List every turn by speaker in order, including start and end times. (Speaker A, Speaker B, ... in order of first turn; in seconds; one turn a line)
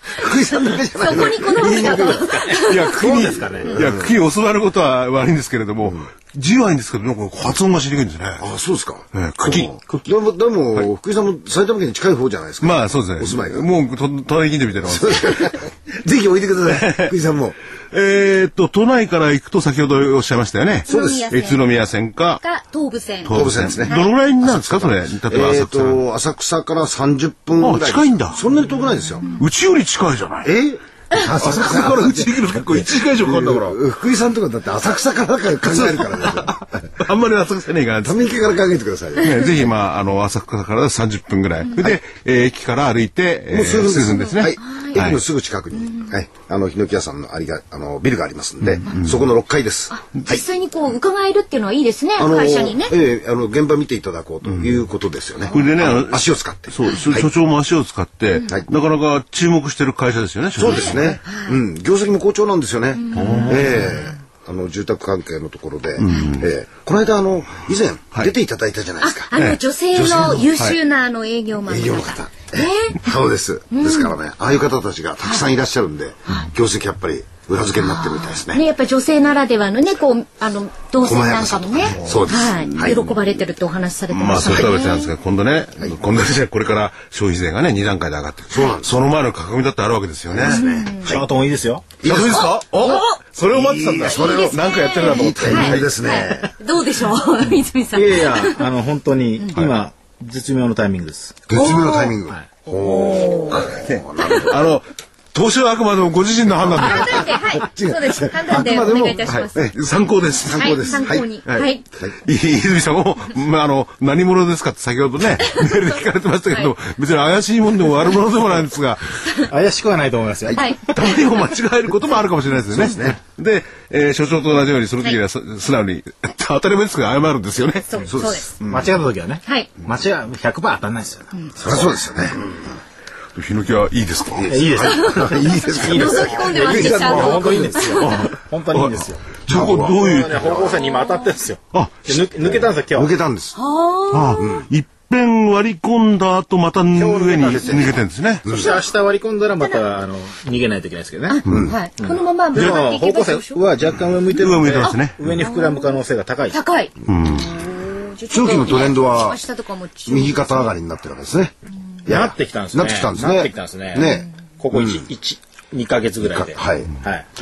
Speaker A: 0.1-2.2
Speaker B: 1.0-2.9
Speaker C: 1.5-3.8
Speaker D: 1.9-8.4
Speaker A: 3.7-4.1
Speaker A: 8.4-13.7
Speaker D: 9.1-9.9
Speaker D: 12.6-15.6
Speaker A: 14.8-17.6
Speaker D: 16.7-17.1
Speaker D: 17.9-22.4
Speaker B: 20.9-21.6
Speaker A: 20.9-21.4
Speaker B: 22.4-24.1
Speaker A: 23.2-29.3
Speaker D: 23.2-26.0
Speaker D: 27.6-28.4
Speaker D: 29.3-30.5
Speaker A: 30.4-36.9
Speaker D: 31.3-33.8
Speaker D: 35.6-38.3
Speaker A: 38.0-39.4
Speaker D: 39.2-45.2
Speaker A: 43.5-50.4
Speaker B: 44.3-45.1
Speaker D: 48.6-49.2
Speaker B: 49.9-52.9
Speaker A: 52.2-57.3
Speaker D: 54.5-54.7
Speaker D: 55.5-61.2
Speaker A: 60.6-69.3
Speaker B: 60.7-61.6
Speaker B: 63.0-63.8
Speaker D: 63.1-63.9
Speaker D: 66.0-66.5
Speaker B: 69.0-73.0
Speaker D: 69.3-70.8
Speaker A: 71.7-78.6
Speaker B: 73.7-74.2
Speaker B: 77.8-85.1
Speaker A: 81.0-83.0
Speaker D: 81.9-83.1
Speaker D: 84.1-90.6
Speaker A: 88.5-88.9
Speaker A: 90.3-91.2
Speaker B: 90.4-91.2
Speaker C: 91.0-91.9
Speaker A: 92.0-93.0
Speaker D: 92.0-96.0
Speaker B: 92.3-93.2
Speaker A: 93.5-96.5
Speaker B: 94.0-98.6
Speaker C: 97.9-101.4
Speaker A: 101.5-104.5
Speaker B: 101.5-102.2
Speaker B: 102.7-103.7
Speaker D: 103.5-107.4
Speaker B: 106.8-109.6
Speaker A: 106.8-109.7
Speaker D: 109.2-111.7
Speaker A: 110.5-111.3
Speaker B: 110.5-111.8
Speaker D: 112.2-119.2
Speaker B: 115.4-115.8
Speaker C: 119.5-120.8
Speaker B: 120.5-121.2
Speaker D: 120.9-127.9
Speaker A: 122.7-123.2
Speaker B: 127.9-128.5
Speaker A: 128.1-128.5
Speaker D: 128.6-128.9
Speaker C: 128.6-131.3
Speaker B: 131.3-132.0
Speaker A: 131.6-132.6
Speaker D: 133.3-134.8
Speaker A: 134.3-138.0
Speaker C: 134.4-143.1
Speaker B: 135.0-138.2
Speaker D: 138.0-140.6
Speaker A: 139.5-140.6
Speaker A: 142.9-143.6
Speaker B: 143.6-144.6
Speaker D: 144.1-148.7
Speaker A: 144.4-144.7
Speaker C: 146.9-151.4
Speaker A: 148.4-148.7
Speaker B: 151.3-153.6
Speaker A: 151.5-151.7
Speaker C: 152.0-156.6
Speaker D: 154.3-155.2
Speaker B: 154.9-156.0
Speaker B: 156.5-160.7
Speaker D: 157.1-157.6
Speaker A: 158.3-159.4
Speaker A: 160.1-161.5
Speaker A: 162.1-165.0
Speaker C: 162.1-167.3
Speaker A: 166.2-166.9